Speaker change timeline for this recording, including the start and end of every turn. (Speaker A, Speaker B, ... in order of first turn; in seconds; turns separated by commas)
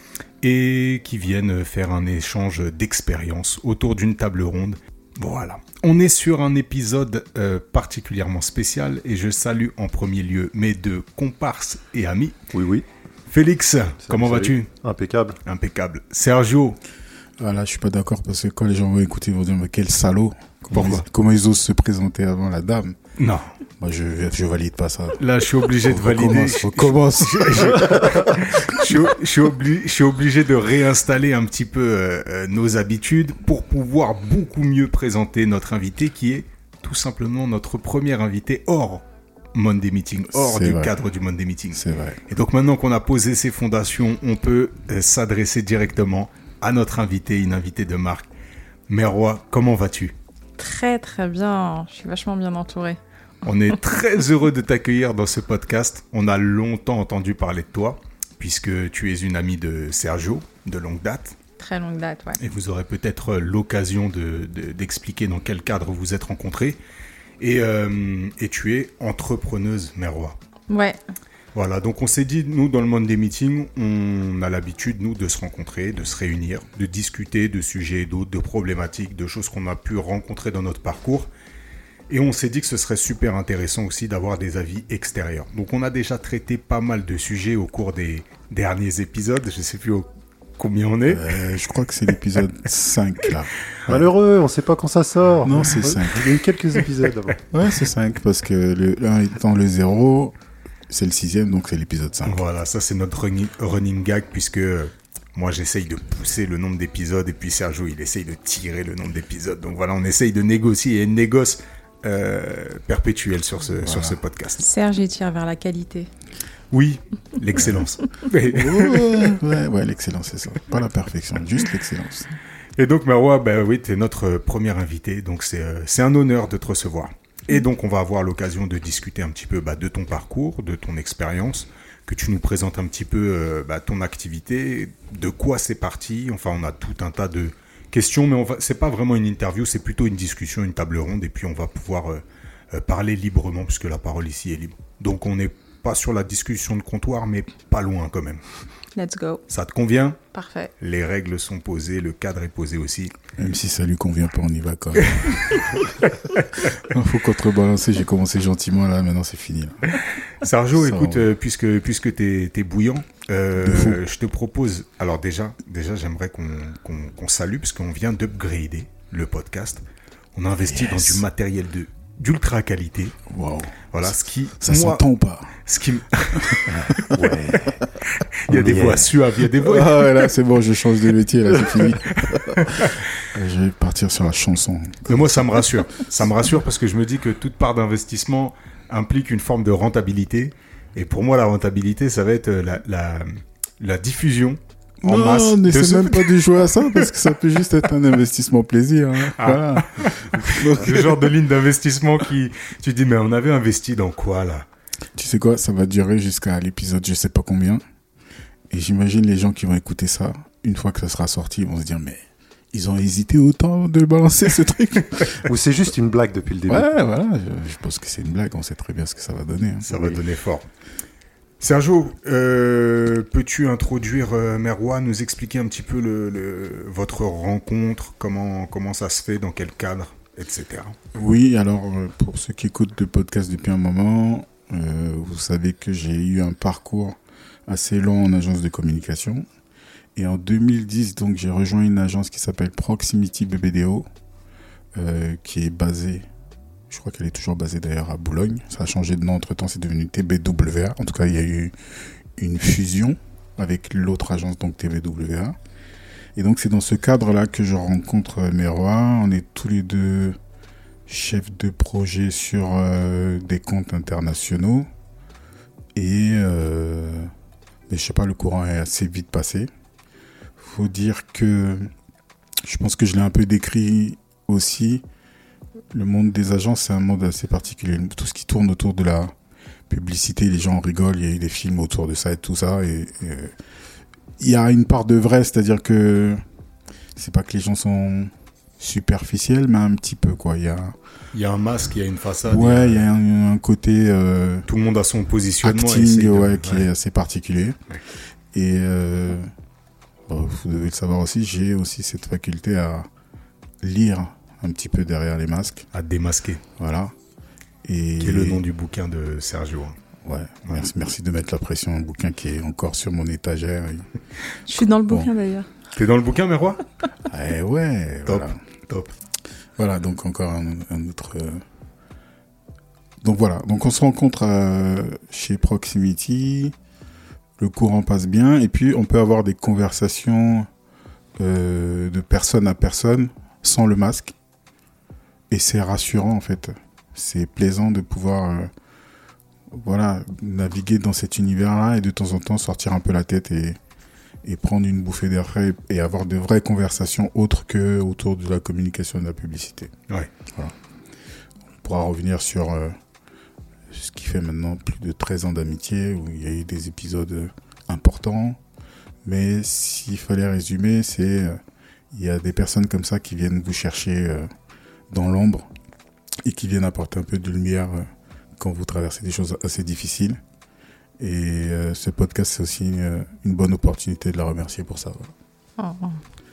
Speaker A: 0.4-12.4, Speaker B: 12.5-12.9, Speaker A: 13.3-14.7, Speaker B: 14.1-15.4, Speaker A: 15.4-16.8, Speaker C: 17.4-23.0, Speaker A: 20.7-21.1, Speaker A: 23.2-23.5, Speaker C: 23.8-25.2, Speaker A: 25.2-48.3, Speaker C: 25.8-28.8, Speaker C: 40.3-40.9, Speaker C: 41.7-42.2, Speaker A: 48.9-50.1, Speaker D: 50.6-53.0, Speaker A: 53.4-61.4, Speaker D: 61.6-62.4, Speaker A: 62.4-66.8, Speaker A: 67.4-70.4, Speaker D: 70.7-71.0, Speaker A: 71.5-81.3, Speaker A: 82.1-91.4, Speaker C: 91.1-94.1, Speaker B: 93.9-97.4, Speaker C: 95.4-96.4, Speaker C: 97.5-100.3, Speaker C: 100.9-102.4, Speaker A: 102.2-114.7, Speaker C: 113.8-114.2, Speaker D: 114.6-116.1, Speaker A: 116.7-119.4, Speaker C: 118.5-122.3, Speaker A: 122.8-148.4, Speaker D: 149.0-149.4, Speaker A: 149.5-150.2, Speaker D: 150.3-150.7, Speaker A: 150.8-153.1, Speaker C: 153.4-155.6, Speaker A: 155.1-156.8, Speaker C: 156.8-159.9, Speaker A: 160.4-169.8, Speaker C: 160.8-161.3, Speaker C: 163.6-164.0, Speaker A: 170.3-173.2, Speaker C: 170.6-171.2, Speaker C: 173.3-175.6, Speaker A: 173.9-175.0, Speaker A: 175.7-177.1, Speaker C: 176.3-177.7, Speaker B: 176.8-177.9, Speaker A: 178.1-180.3, Speaker B: 178.5-179.1, Speaker C: 179.6-185.8, Speaker A: 181.7-183.1, Speaker A: 185.1-197.1, Speaker C: 195.0-201.4, Speaker A: 199.3-204.7, Speaker C: 205.2-207.8, Speaker C: 208.7-215.5, Speaker B: 215.4-216.9, Speaker C: 216.7-220.2, Speaker A: 219.8-220.7, Speaker A: 221.6-231.0, Speaker C: 231.1-239.5, Speaker C: 240.2-244.1, Speaker C: 245.0-246.3, Speaker C: 246.9-251.7, Speaker C: 252.4-255.6, Speaker C: 256.4-260.4, Speaker C: 261.1-264.9, Speaker C: 265.9-267.3, Speaker C: 267.9-269.7, Speaker C: 270.6-271.9, Speaker C: 272.6-275.0, Speaker C: 275.9-279.3, Speaker C: 279.9-283.5, Speaker C: 284.4-286.4, Speaker C: 287.2-291.0, Speaker A: 291.3-293.1, Speaker C: 292.4-294.7, Speaker A: 294.7-296.9, Speaker C: 295.6-297.8, Speaker C: 298.5-299.5, Speaker C: 300.3-303.1, Speaker C: 303.8-305.9, Speaker A: 305.9-306.6, Speaker C: 306.8-307.1, Speaker C: 307.9-308.6, Speaker A: 308.2-309.9, Speaker C: 310.2-314.1, Speaker D: 314.7-315.7, Speaker A: 315.9-316.8, Speaker C: 317.3-318.6, Speaker A: 318.3-319.1, Speaker C: 319.8-321.6, Speaker C: 323.2-326.7, Speaker C: 327.6-330.7, Speaker C: 331.4-334.4, Speaker C: 335.5-338.7, Speaker C: 339.7-343.8, Speaker C: 344.4-349.9, Speaker C: 351.8-352.9, Speaker C: 353.9-358.6, Speaker C: 359.2-361.6, Speaker C: 362.1-364.5, Speaker C: 365.1-365.7, Speaker C: 366.4-368.1, Speaker C: 368.6-370.4, Speaker C: 371.2-375.3, Speaker D: 375.8-376.2